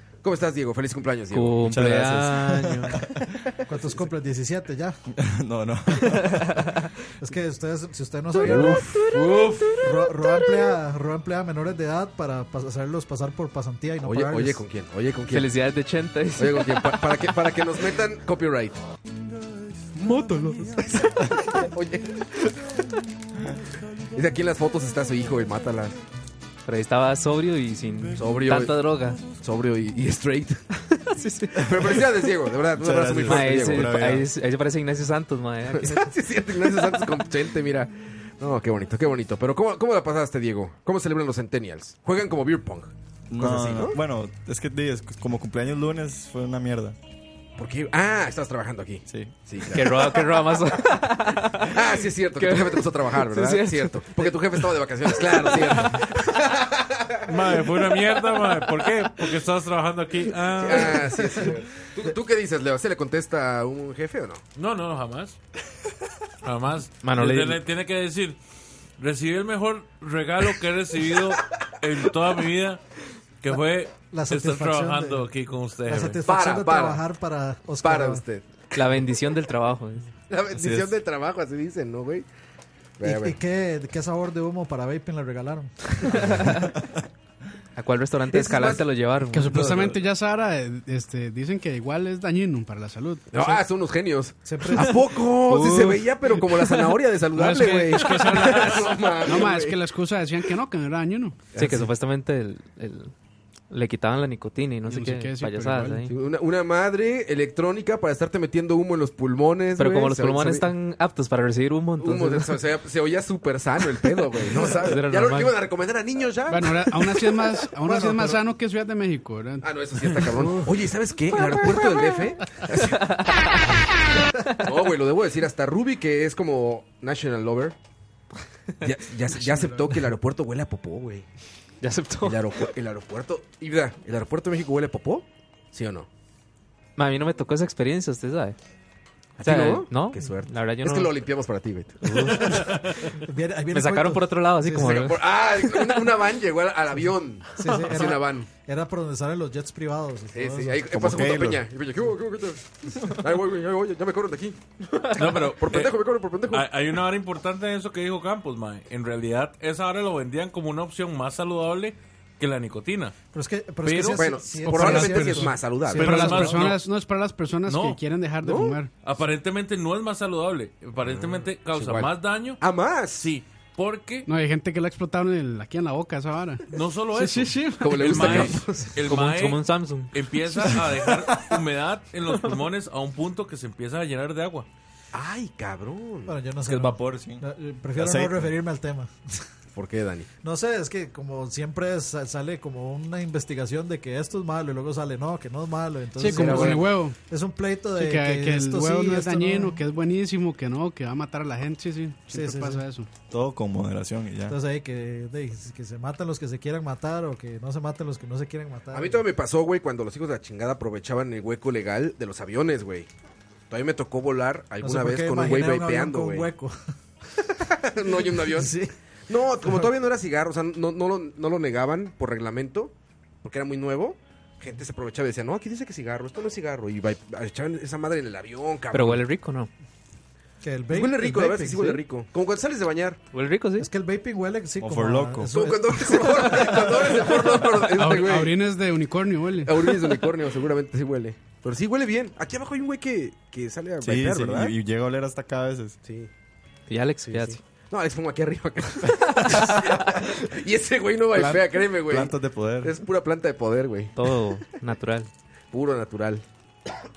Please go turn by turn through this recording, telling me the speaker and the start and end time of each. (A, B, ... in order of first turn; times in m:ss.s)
0:00.2-0:01.6 A
0:01.3-0:02.9 B
0:01.7-0:03.0 C
0:02.5-0:03.0 D
0:03.7-0:05.0 D
0:05.1-0:06.6 C
0:07.2-0:08.9 D
0:08.4-0:09.7 A
0:08.9-0:09.7 B
0:09.8-0:14.6 D
0:14.0-0:15.5 A
0:15.3-0:17.2 B
0:16.4-0:18.8 A
0:20.0-0:22.2 A
0:24.1-0:26.0 A
0:26.6-0:29.2 B
0:28.1-0:30.6 A
0:30.9-0:31.9 B
0:31.6-0:34.0 A
0:32.8-0:34.3 C
0:33.2-0:36.1 B
0:35.7-0:44.0 A
0:43.3-0:47.0 C
0:47.6-0:50.4 A
0:49.1-0:49.3 C
0:49.7-0:51.8 B
0:51.5-0:57.3 A
0:52.4-0:54.3 B
0:55.2-0:55.7 B
0:57.3-1:01.5 E
1:00.5-1:04.4 A
1:04.6-1:05.4 E
1:06.4-1:08.4 E
1:07.0-1:07.6 B
1:09.0-1:12.8 E
1:13.4-1:16.2 E
1:14.1-1:15.3 D
1:15.9-1:18.2 D
1:16.2-1:17.0 A
1:17.8-1:18.4 A
1:18.7-1:20.1 B
1:20.3-1:22.3 A
1:20.5-1:20.9 C
1:23.0-1:23.4 A
1:23.0-1:26.4 D
1:26.0-1:26.6 B
1:27.8-1:29.7 B
1:28.3-1:28.8 A
1:29.3-1:33.6 F
1:29.5-1:30.0 A
1:33.3-1:39.8 A
1:34.4-1:35.0 D
1:35.4-1:36.8 B
1:37.3-1:41.4 F
1:41.5-1:41.9 A
1:41.5-1:43.1 B
1:43.7-1:46.1 B
1:44.8-1:46.1 F
1:46.1-1:50.7 A
1:49.8-1:52.5 B
1:52.0-1:56.8 A
1:54.8-1:55.5 B
1:56.5-2:00.7 F
1:57.8-1:58.4 D
1:59.6-2:03.1 A
2:01.5-2:01.9 F
2:03.1-2:03.5 B
2:04.6-2:07.7 A
2:08.8-2:11.3 A
2:09.4-2:10.0 F
2:11.8-2:12.4 B
2:12.2-2:16.1 A
2:17.0-2:18.6 B
2:19.4-2:22.6 A
2:19.4-2:21.1 B
2:22.0-2:22.7 B
2:22.4-2:25.0 D
2:23.7-2:26.0 B
2:24.8-2:28.5 A
2:27.6-2:30.8 D
2:30.3-2:36.7 A
2:30.9-2:31.6 C
2:35.2-2:43.1 E
2:43.3-2:46.7 D
2:43.8-2:44.2 E
2:44.1-2:46.3 A
2:44.6-2:48.9 F
2:45.9-2:46.8 E
2:47.6-2:48.0 E
2:48.4-2:48.8 A
2:49.0-2:54.3 E
2:51.0-2:53.3 A
2:54.2-2:58.5 F
2:56.7-3:04.7 E
2:57.8-2:58.9 A
2:59.0-3:00.1 B
3:05.1-3:06.3 A
3:06.3-3:09.4 D
3:06.6-3:07.4 C
3:08.0-3:08.5 C
3:09.8-3:10.3 A
3:10.4-3:19.8 D
3:16.2-3:17.2 F
3:16.3-3:16.9 A
3:18.0-3:23.1 F
3:22.3-3:22.8 D
3:23.3-3:24.6 C
3:24.5-3:29.2 D
3:28.9-3:33.1 A
3:33.7-3:36.5 A
3:34.8-3:36.7 D
3:37.6-3:38.7 A
3:38.1-3:38.9 D
3:39.3-3:49.2 A
3:48.9-3:49.7 B
3:50.6-3:52.0 D
3:50.9-3:53.2 A
3:53.3-3:53.9 B
3:53.8-3:57.1 D
3:54.8-3:55.5 C
3:55.5-3:58.5 A
3:57.9-4:00.1 F
3:59.6-4:04.7 A
4:04.0-4:06.0 C
4:06.0-4:06.3 A
4:06.9-4:07.6 B
4:07.2-4:14.1 A
4:12.1-4:13.0 C
4:14.2-4:15.3 B
4:15.7-4:16.4 A